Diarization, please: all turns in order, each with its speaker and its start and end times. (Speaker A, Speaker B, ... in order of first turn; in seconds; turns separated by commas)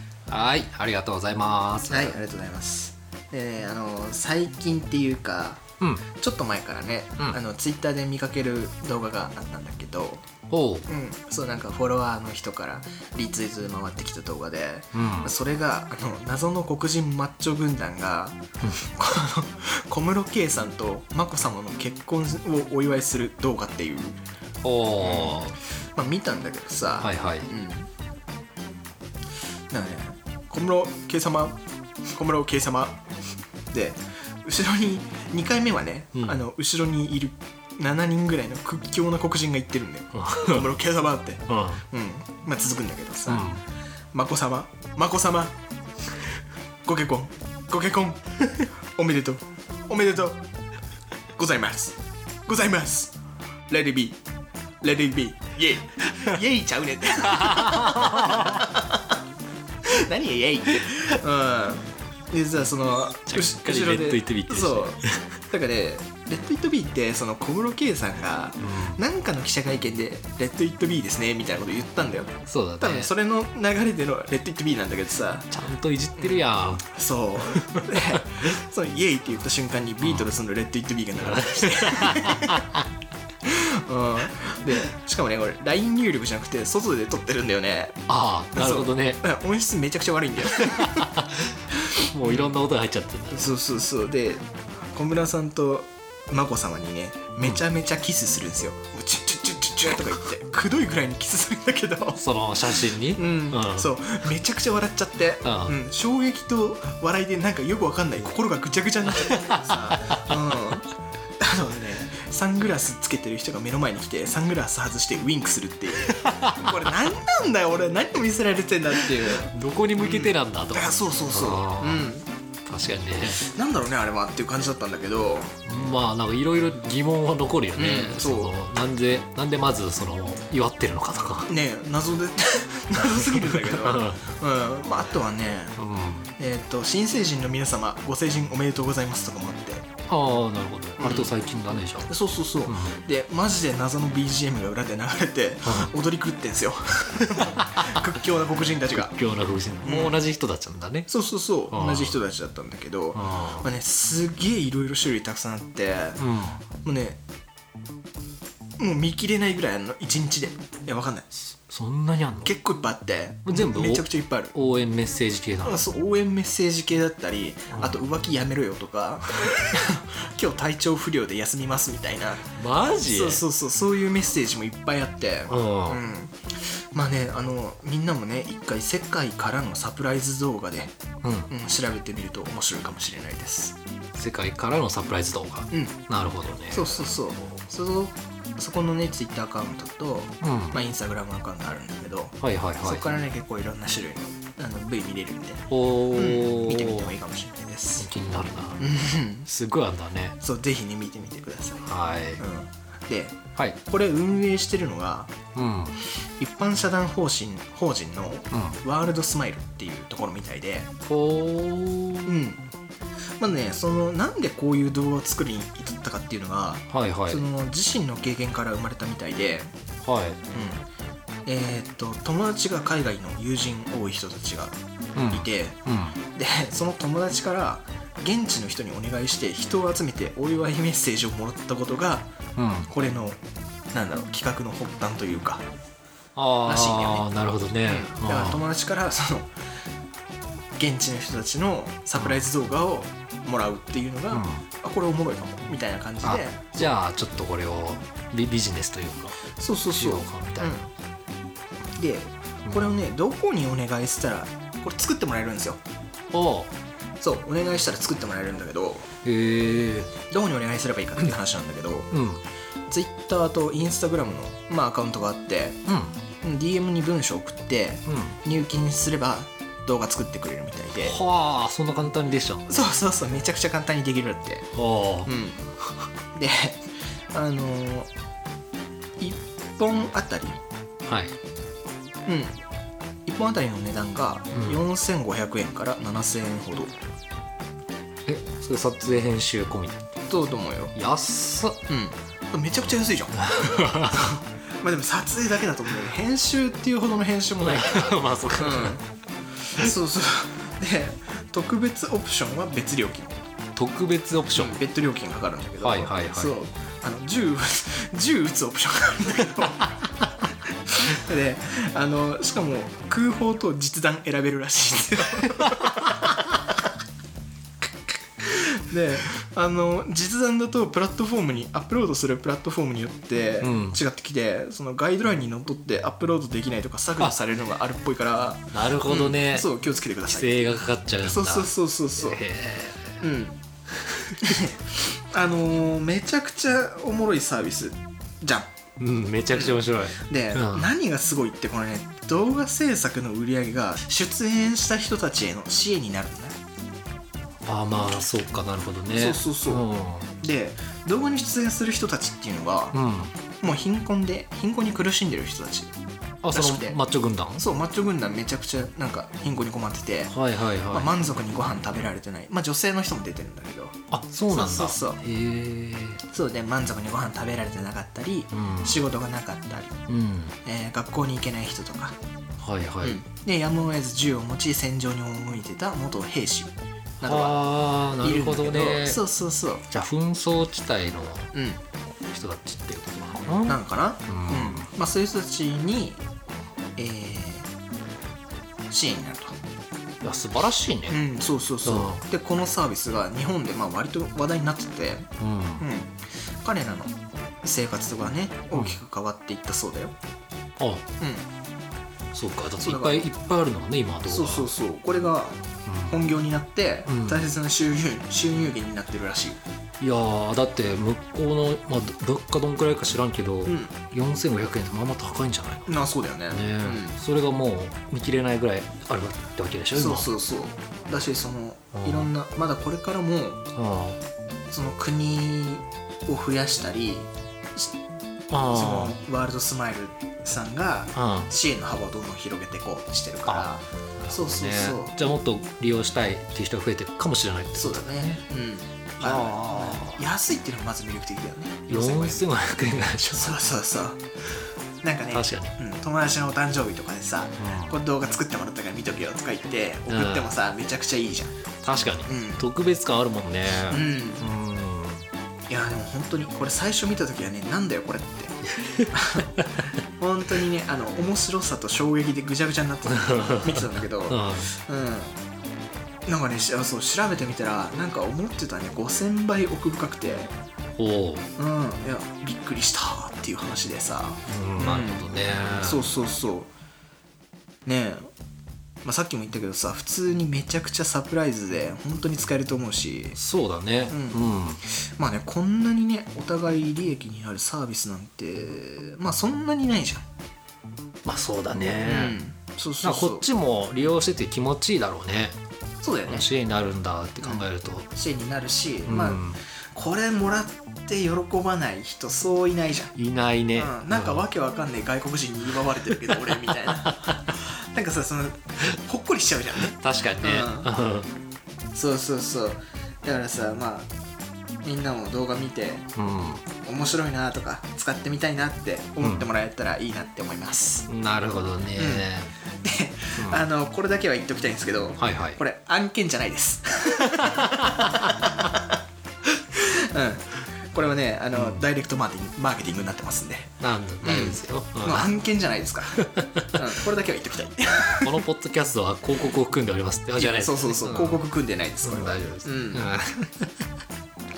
Speaker A: 0.3-2.2, Speaker B: 1.9-10.2, Speaker A: 10.5-10.9, Speaker B: 10.9-24.2, Speaker A: 14.9-15.3, Speaker A: 24.6-25.6, Speaker B: 25.0-27.9, Speaker A: 27.0-27.5, Speaker B: 29.7-31.6, Speaker B: 32.1-33.0, Speaker B: 33.7-43.5, Speaker A: 40.1-40.7, Speaker A: 41.5-41.8, Speaker A: 43.3-43.6, Speaker B: 44.1-45.6, Speaker B: 46.9-48.3, Speaker B: 49.0-50.5, Speaker B: 51.4-53.1, Speaker B: 53.7-54.2, Speaker B: 54.8-59.0, Speaker A: 57.5-58.6, Speaker B: 59.9-75.5, Speaker A: 63.3-65.2, Speaker A: 68.6-69.0, Speaker A: 72.5-73.1, Speaker A: 75.5-76.8, Speaker B: 76.2-82.6, Speaker A: 77.5-78.2, Speaker A: 80.0-80.3, Speaker A: 81.2-82.8, Speaker B: 83.5-91.1, Speaker A: 88.1-89.2, Speaker A: 90.6-93.5, Speaker B: 92.2-92.6, Speaker B: 93.3-102.2, Speaker A: 102.2-103.9, Speaker B: 103.2-122.3, Speaker A: 105.4-105.8, Speaker A: 109.1-110.3, Speaker A: 116.1-116.7, Speaker A: 119.5-122.1, Speaker A: 122.7-123.4, Speaker B: 123.4-125.6, Speaker A: 125.7-131.5, Speaker B: 127.8-128.6, Speaker B: 131.5-135.8, Speaker A: 133.0-134.2, Speaker A: 135.8-136.3, Speaker B: 136.4-139.9, Speaker A: 140.1-142.1, Speaker B: 141.0-141.3, Speaker B: 142.1-149.2, Speaker A: 142.7-143.0, Speaker A: 145.7-145.9, Speaker A: 147.4-148.0, Speaker A: 149.0-151.1, Speaker B: 149.8-150.2, Speaker B: 151.1-156.2, Speaker A: 151.7-152.2, Speaker A: 153.2-153.7, Speaker A: 156.2-156.6, Speaker B: 156.8-157.2, Speaker B: 158.8-161.3, Speaker A: 161.7-162.6, Speaker B: 162.4-164.6, Speaker A: 163.5-165.8, Speaker B: 165.6-172.5, Speaker A: 167.7-168.0, Speaker A: 172.6-173.4, Speaker B: 173.0-180.9, Speaker A: 175.5-176.0, Speaker A: 181.2-181.5, Speaker B: 181.5-183.8, Speaker A: 184.2-187.6, Speaker B: 185.7-186.0, Speaker B: 186.7-198.1, Speaker A: 190.4-190.8, Speaker A: 192.4-193.1, Speaker A: 195.7-197.1, Speaker A: 198.0-200.4, Speaker B: 198.8-199.5, Speaker B: 200.4-201.9, Speaker A: 201.8-202.4, Speaker B: 202.4-205.3, Speaker A: 205.6-206.0, Speaker B: 206.4-210.9, Speaker A: 208.5-208.8, Speaker A: 211.1-212.4, Speaker B: 212.3-212.7, Speaker B: 213.4-219.7, Speaker A: 216.9-217.4, Speaker A: 220.0-220.4, Speaker B: 220.5-220.9, Speaker B: 221.4-224.8, Speaker A: 225.2-226.2, Speaker B: 225.3-225.8, Speaker B: 226.3-232.3, Speaker A: 232.6-232.9, Speaker B: 232.9-233.4, Speaker B: 233.9-235.6, Speaker A: 236.4-238.6, Speaker B: 236.6-237.3, Speaker B: 237.8-239.5, Speaker B: 240.8-246.9, Speaker A: 242.2-242.4, Speaker A: 244.3-244.6, Speaker A: 246.2-249.4, Speaker B: 249.6-250.9, Speaker A: 249.9-250.8, Speaker B: 252.0-255.8, Speaker A: 252.7-253.0, Speaker A: 256.3-256.7, Speaker B: 257.2-259.1, Speaker A: 259.2-260.1, Speaker B: 260.3-262.1, Speaker A: 262.1-262.4, Speaker B: 262.9-265.8, Speaker A: 265.9-266.1, Speaker B: 266.4-271.2, Speaker A: 268.1-268.4, Speaker A: 271.0-272.6, Speaker B: 272.7-274.7, Speaker A: 274.8-275.3, Speaker B: 275.2-275.7, Speaker B: 276.3-278.1, Speaker B: 279.2-280.6, Speaker A: 281.1-281.4, Speaker B: 282.3-282.6, Speaker B: 283.3-286.9, Speaker A: 284.5-284.8, Speaker A: 288.3-290.0, Speaker B: 290.3-290.9, Speaker A: 290.9-291.8, Speaker B: 291.9-299.0, Speaker A: 293.4-294.4, Speaker A: 297.6-299.0, Speaker B: 299.8-303.4, Speaker A: 303.8-304.8, Speaker B: 304.5-309.9, Speaker A: 305.8-306.6, Speaker B: 311.1-316.0, Speaker B: 318.4-332.4, Speaker A: 323.6-324.0, Speaker A: 328.7-329.7, Speaker A: 330.3-333.2, Speaker B: 333.2-333.6, Speaker A: 334.1-334.4, Speaker B: 334.4-338.7, Speaker A: 339.0-340.9, Speaker B: 339.5-346.6, Speaker A: 347.7-350.3, Speaker B: 349.1-349.8, Speaker B: 350.4-353.0, Speaker A: 352.9-353.3, Speaker B: 353.6-355.9, Speaker A: 356.4-357.6, Speaker B: 356.5-357.0, Speaker B: 357.6-360.4, Speaker A: 360.3-361.1, Speaker B: 360.9-364.0, Speaker A: 364.1-366.2, Speaker B: 364.5-365.2, Speaker B: 366.3-370.0, Speaker A: 368.5-369.1, Speaker A: 370.1-370.6, Speaker B: 370.6-372.2, Speaker A: 372.6-373.2, Speaker B: 373.0-377.7, Speaker A: 377.2-379.2, Speaker B: 378.2-379.9, Speaker A: 379.9-381.5, Speaker B: 381.5-381.8, Speaker A: 382.3-384.9, Speaker B: 383.7-386.2, Speaker B: 387.0-387.7, Speaker B: 388.9-389.6, Speaker A: 390.2-391.2, Speaker B: 391.1-395.3, Speaker A: 391.9-392.2, Speaker A: 395.4-395.9, Speaker B: 395.8-400.1, Speaker A: 398.7-399.0, Speaker A: 400.8-401.1, Speaker B: 401.2-401.5, Speaker A: 402.3-404.7, Speaker B: 402.8-403.3, Speaker B: 404.3-409.6, Speaker A: 405.9-406.2, Speaker A: 407.1-407.5, Speaker A: 410.0-415.9, Speaker B: 413.7-413.9, Speaker B: 415.9-417.2, Speaker A: 416.5-420.3, Speaker B: 419.9-423.6, Speaker A: 422.0-422.3, Speaker A: 423.8-424.2, Speaker B: 424.7-427.9, Speaker A: 428.5-429.2, Speaker B: 428.7-435.2, Speaker A: 431.1-431.5, Speaker A: 434.2-438.4, Speaker B: 437.8-444.2, Speaker A: 439.2-440.2, Speaker A: 441.9-443.6, Speaker B: 445.0-451.5, Speaker A: 445.3-445.8, Speaker A: 447.6-448.0, Speaker A: 450.1-450.5, Speaker A: 451.8-455.3, Speaker B: 452.3-452.7, Speaker B: 453.9-454.5, Speaker B: 455.7-459.5, Speaker A: 458.8-459.9, Speaker B: 460.2-465.4, Speaker A: 463.1-464.7, Speaker B: 466.3-470.5, Speaker A: 471.0-471.5, Speaker B: 471.6-476.7, Speaker A: 474.5-476.0, Speaker B: 477.9-478.3, Speaker B: 479.0-483.4, Speaker A: 483.4-484.8, Speaker B: 484.1-490.2, Speaker A: 491.2-492.4, Speaker B: 492.0-493.5, Speaker A: 493.0-495.6, Speaker B: 496.0-496.5, Speaker A: 496.3-498.1, Speaker B: 497.4-503.1, Speaker A: 499.1-499.6, Speaker A: 503.2-504.4, Speaker B: 503.8-510.9, Speaker A: 507.1-507.5, Speaker A: 509.9-511.3, Speaker B: 511.9-514.1, Speaker B: 514.8-516.1, Speaker A: 516.2-516.6, Speaker B: 516.8-521.1, Speaker A: 519.2-519.5, Speaker A: 521.1-522.5, Speaker B: 522.0-522.3, Speaker B: 522.8-528.9, Speaker A: 523.4-523.6, Speaker A: 525.2-525.6, Speaker A: 527.4-528.3, Speaker B: 529.7-536.2, Speaker A: 531.5-531.8, Speaker A: 533.8-535.3, Speaker A: 536.3-536.8, Speaker B: 536.7-538.4, Speaker A: 538.2-541.4, Speaker B: 540.4-543.1, Speaker A: 542.0-543.9